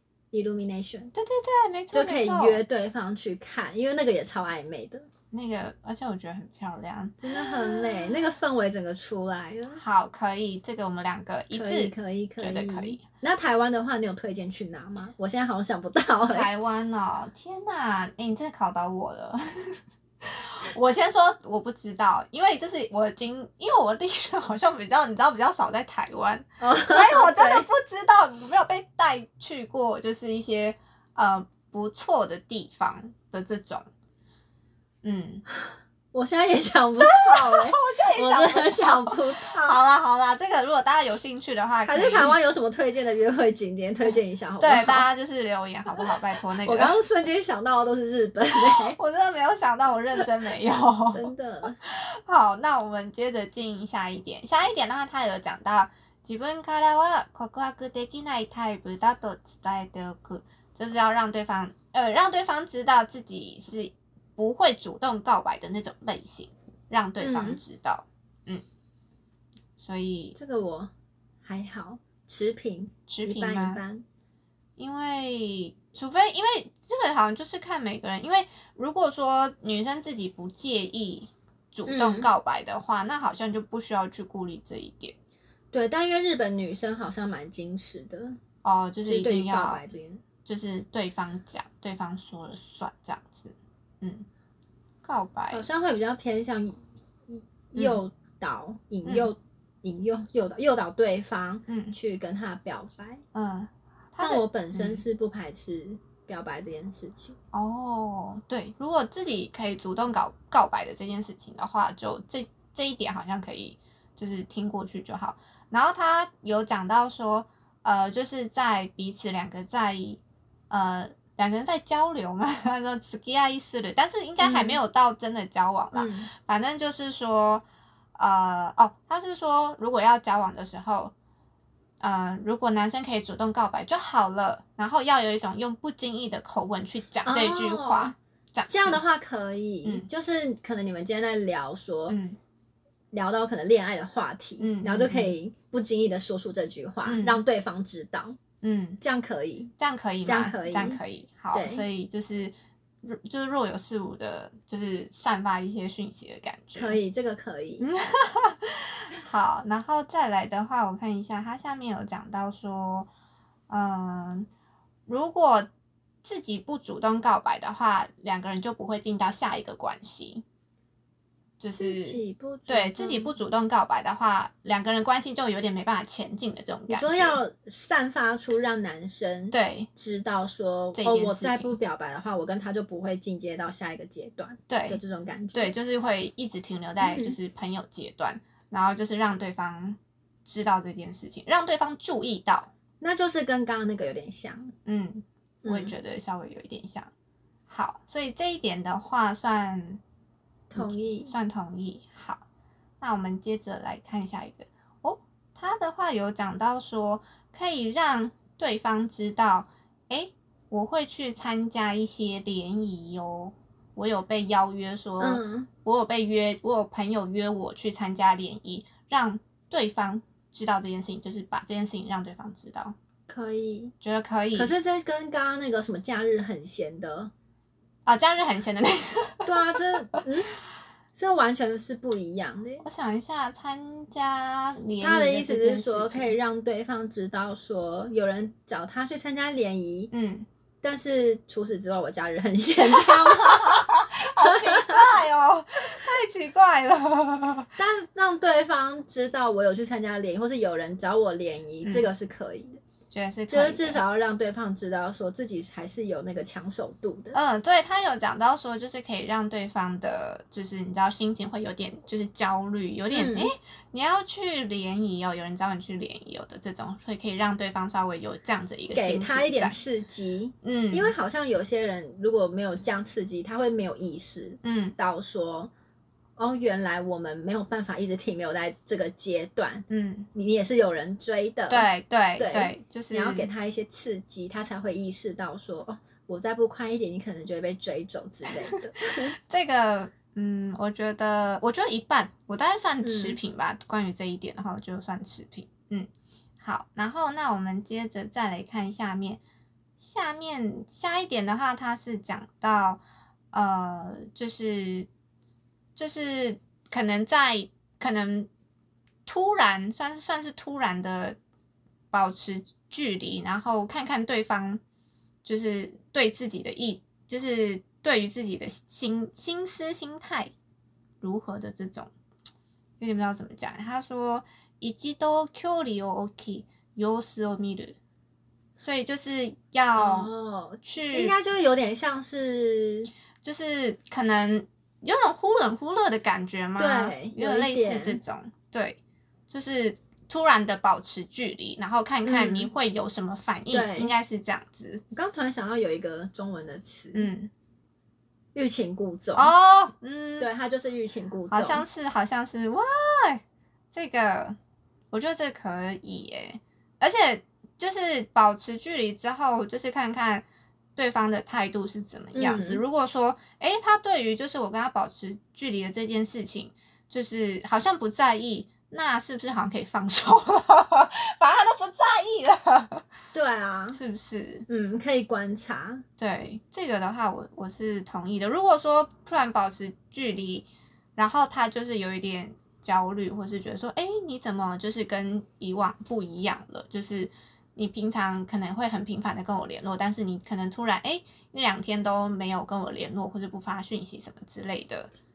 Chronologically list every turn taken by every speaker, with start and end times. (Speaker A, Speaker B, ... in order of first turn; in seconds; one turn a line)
Speaker A: 0.3-1.1
Speaker B: 1.1-2.6
Speaker A: 1.9-5.1
Speaker B: 5.3-8.2
Speaker A: 7.2-9.8
Speaker B: 9.8-13.0
Speaker A: 11.5-16.5
Speaker B: 16.3-33.9
Speaker A: 26.6-27.7
Speaker B: 35.0-35.4
Speaker A: 35.5-39.8
Speaker B: 37.0-42.4
Speaker A: 41.9-45.0
Speaker B: 44.6-47.0
Speaker A: 46.0-49.0
Speaker B: 48.6-51.3
Speaker A: 51.1-51.8
Speaker B: 51.8-68.6
Speaker A: 67.2-67.6
Speaker B: 69.8-70.3
Speaker A: 70.3-70.9
Speaker A: 71.4-74.0
Speaker B: 73.1-73.8
Speaker B: 74.8-85.1
Speaker A: 81.8-82.3
Speaker A: 85.7-88.4
Speaker B: 88.6-89.8
Speaker A: 89.0-90.2
Speaker B: 90.4-94.2
Speaker B: 95.0-95.6
Speaker A: 95.5-103.2
Speaker B: 99.0-99.3
Speaker B: 101.7-101.9
Speaker B: 103.3-105.0
Speaker A: 104.2-107.3
Speaker B: 107.5-127.6
Speaker A: 124.4-124.8
Speaker A: 125.9-126.3
Speaker B: 128.2-131.1
Speaker B: 132.0-139.0
Speaker A: 137.2-138.1
Speaker A: 138.7-142.2
Speaker B: 142.1-142.4
Speaker A: 143.1-148.4
Speaker B: 144.6-145.3
Speaker B: 147.0-147.4
Speaker B: 148.6-149.0
Speaker A: 149.0-149.7
Speaker B: 149.8-157.0
Speaker A: 150.2-151.0
Speaker A: 151.5-151.8
Speaker A: 156.7-157.9
Speaker B: 157.8-163.1
Speaker B: 163.7-164.5
Speaker B: 165.1-165.7
Speaker B: 166.2-170.4
Speaker B: 171.6-177.4
Speaker A: 171.8-173.3
Speaker A: 176.9-185.7
Speaker B: 179.5-179.9
Speaker B: 180.9-181.7
Speaker B: 184.7-185.0
Speaker B: 185.5-192.7
Speaker A: 187.0-187.4
Speaker A: 193.0-194.7
Speaker B: 194.8-197.1
Speaker A: 195.6-195.9
Speaker B: 197.7-200.0
Speaker A: 200.7-201.3
Speaker B: 200.7-202.4
Speaker B: 203.0-222.9
Speaker A: 215.2-215.7
Speaker A: 223.3-223.9
Speaker B: 224.0-224.7
Speaker A: 224.5-227.3
Speaker B: 228.1-229.8
Speaker A: 229.4-230.6
Speaker A: 231.2-232.8
Speaker B: 232.8-236.3
Speaker A: 235.0-240.1
Speaker B: 240.1-240.4
Speaker A: 240.8-245.2
Speaker B: 242.8-247.7
Speaker A: 247.8-252.8
Speaker B: 251.8-252.1
Speaker B: 253.1-254.0
Speaker A: 253.5-257.4
Speaker B: 257.3-269.8
Speaker A: 263.1-263.5
Speaker A: 268.9-275.7
Speaker B: 270.6-271.1
Speaker B: 274.6-274.9
Speaker A: 276.4-289.3
Speaker B: 279.9-280.3
Speaker B: 281.7-283.5
Speaker B: 289.1-299.4
Speaker A: 293.0-293.4
Speaker B: 300.0-303.0
Speaker B: 303.5-305.1
Speaker B: 305.9-308.5
Speaker B: 309.2-311.4
Speaker B: 312.1-314.8
Speaker B: 315.4-320.5
Speaker B: 321.2-322.1
Speaker B: 323.0-328.0
Speaker B: 328.8-330.3
Speaker A: 329.9-333.1
Speaker B: 330.8-331.3
Speaker B: 333.4-339.0
Speaker A: 336.8-338.2
Speaker B: 339.5-345.0
Speaker A: 342.2-342.7
Speaker A: 343.7-344.1
Speaker A: 345.1-347.3
Speaker B: 347.1-347.5
Speaker A: 348.5-349.5
Speaker B: 349.3-350.5
Speaker A: 350.4-351.8
Speaker B: 351.5-353.4
Speaker B: 353.9-354.6
Speaker B: 355.1-360.4
Speaker B: 360.9-373.0
Speaker A: 362.3-362.8
Speaker A: 373.3-374.0
Speaker B: 373.9-374.6
Speaker A: 374.7-376.0
Speaker B: 376.2-395.1